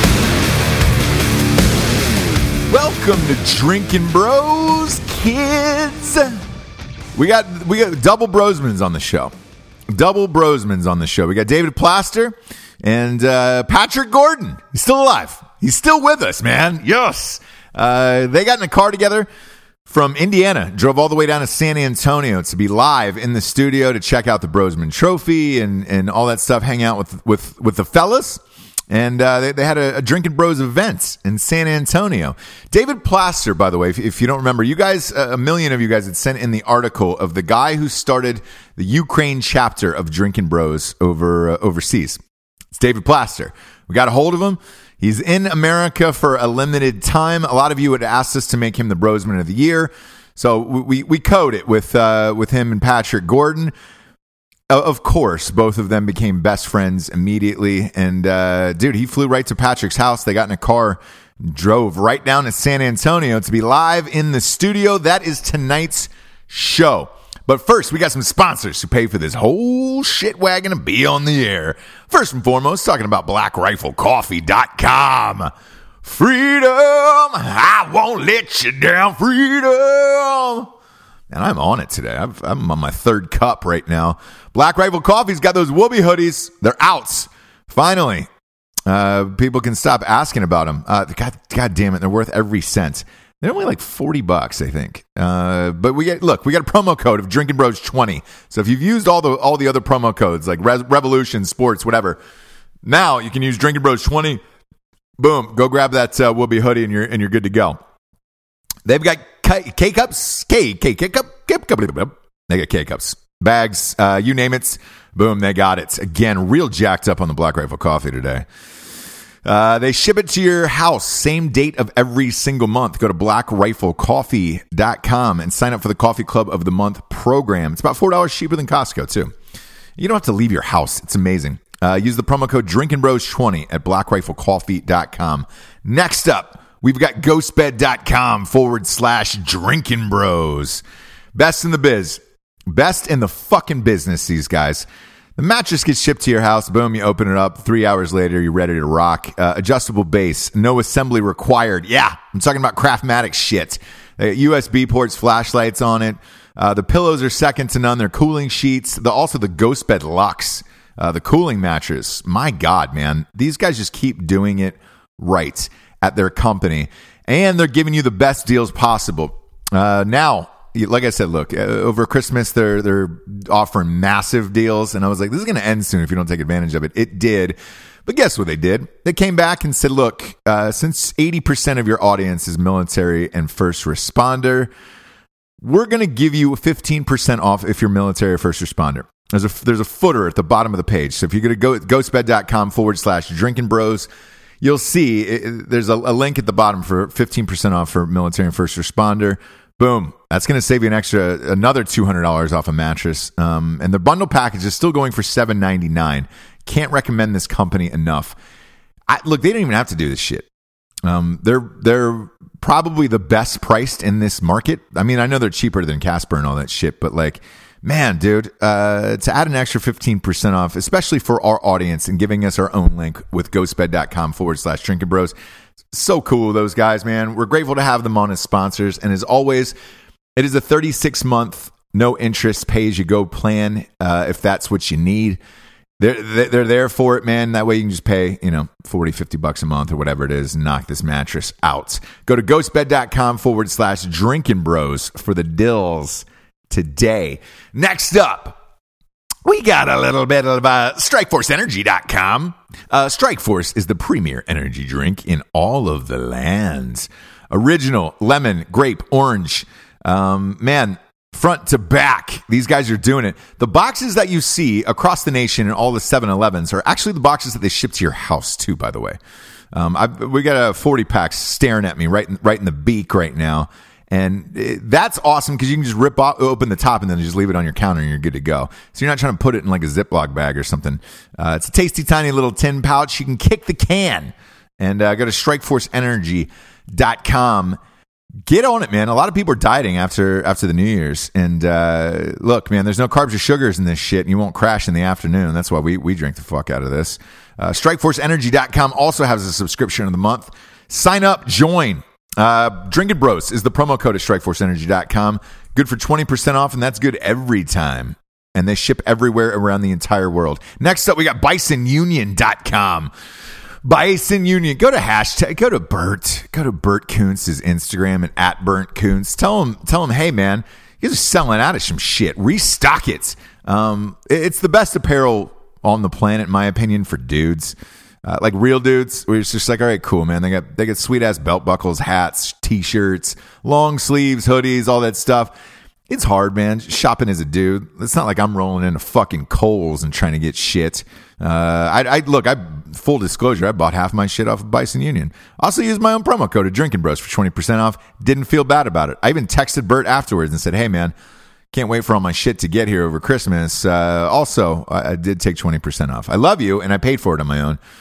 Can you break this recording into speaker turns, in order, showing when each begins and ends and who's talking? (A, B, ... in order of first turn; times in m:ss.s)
0:02.7-0:06.4 A
0:07.2-0:09.3 A
0:09.9-0:19.3 A
0:19.9-0:42.2 A
0:42.7-0:53.7 A
0:54.7-1:15.5 A
1:16.0-1:20.7 A
1:21.3-1:28.3 A
1:28.9-1:42.2 A
1:42.8-1:44.4 A
1:45.2-1:47.8 A
1:48.8-1:58.4 A
1:59.4-2:09.3 A
2:10.0-2:20.8 A
2:21.4-2:24.9 A
2:25.4-3:04.7 A
3:05.6-3:14.1 A
3:14.6-3:28.4 A
3:29.1-3:30.5 A
3:31.0-3:45.3 A
3:45.9-3:49.7 A
3:50.4-3:55.4 A
3:56.0-4:08.6 A
4:09.4-4:29.2 A
4:29.7-4:47.8 A
4:48.5-5:13.1 A
5:13.8-5:35.5 A
5:36.1-5:51.1 A
5:51.7-5:57.8 A